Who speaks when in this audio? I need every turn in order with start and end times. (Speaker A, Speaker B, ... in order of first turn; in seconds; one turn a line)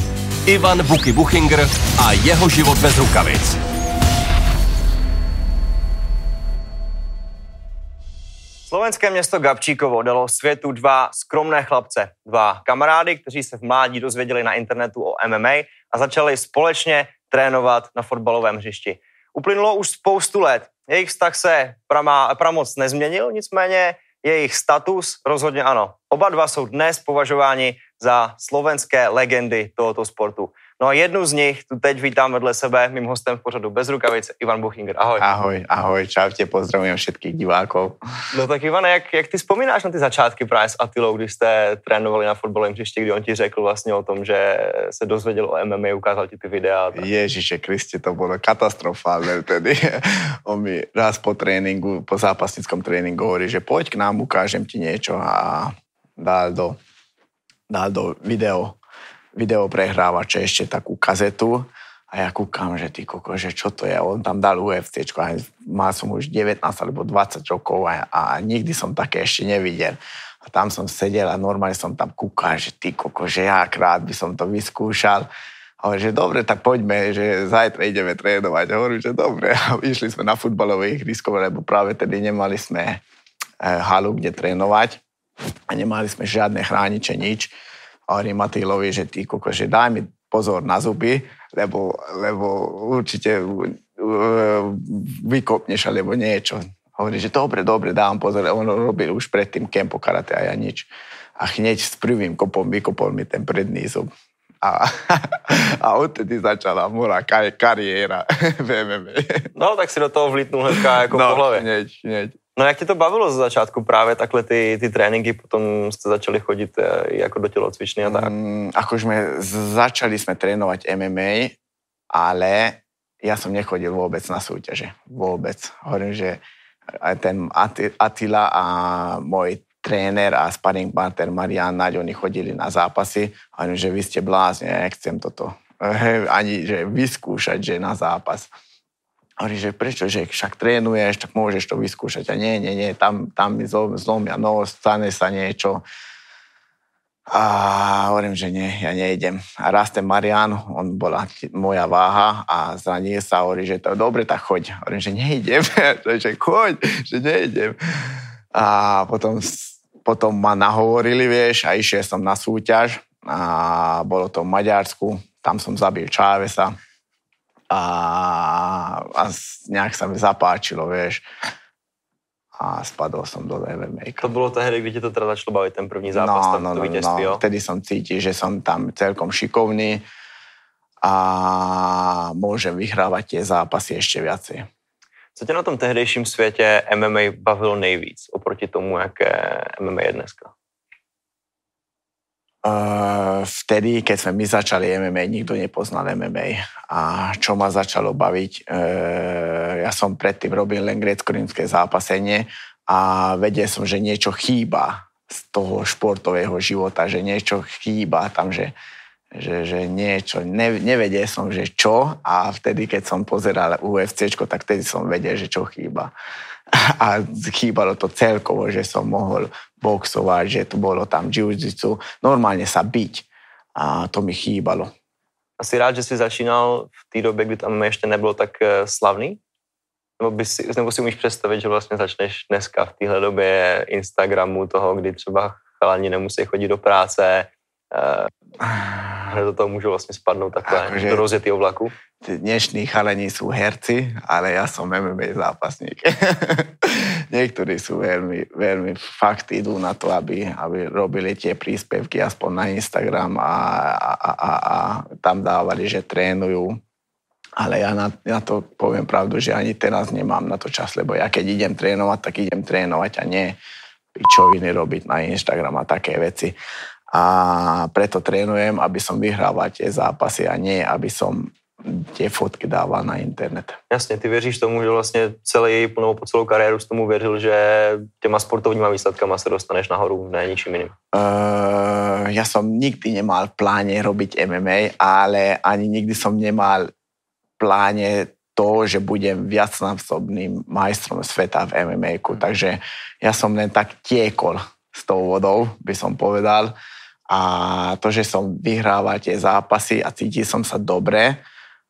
Speaker A: 0.5-3.6
Speaker B: 8.7-35.3
Speaker C: 35.2-38.0
Speaker B: 38.3-47.1
Speaker C: 46.9-56.8
Speaker C: 57.7-58.8
Speaker C: 59.3-75.3
Speaker C: 75.8-83.0
Speaker C: 83.6-85.0
Speaker C: 85.7-87.5
Speaker C: 88.1-104.1
Speaker C: 104.6-109.5
Speaker B: 109.5-111.7
Speaker C: 110.7-112.4
Speaker B: 112.5-118.3
Speaker C: 118.0-121.6
Speaker C: 122.1-138.5
Speaker C: 139.4-145.8
Speaker C: 147.3-166.7
Speaker C: 167.7-171.2
Speaker C: 172.6-174.3
Speaker B: 174.2-177.4
Speaker C: 176.1-180.0
Speaker C: 181.0-184.7
Speaker B: 185.3-190.5
Speaker C: 192.6-208.7
Speaker C: 209.3-216.1
Speaker C: 216.7-224.9
Speaker B: 225.6-229.4
Speaker B: 230.2-238.3
Speaker C: 238.6-239.3
Speaker B: 239.3-241.9
Speaker C: 240.7-241.3
Speaker C: 242.2-256.8
Speaker C: 257.6-263.6
Speaker C: 264.1-266.6
Speaker C: 267.1-273.8
Speaker B: 273.9-280.9
Speaker C: 281.1-286.9
Speaker C: 287.6-296.7
Speaker C: 297.3-301.4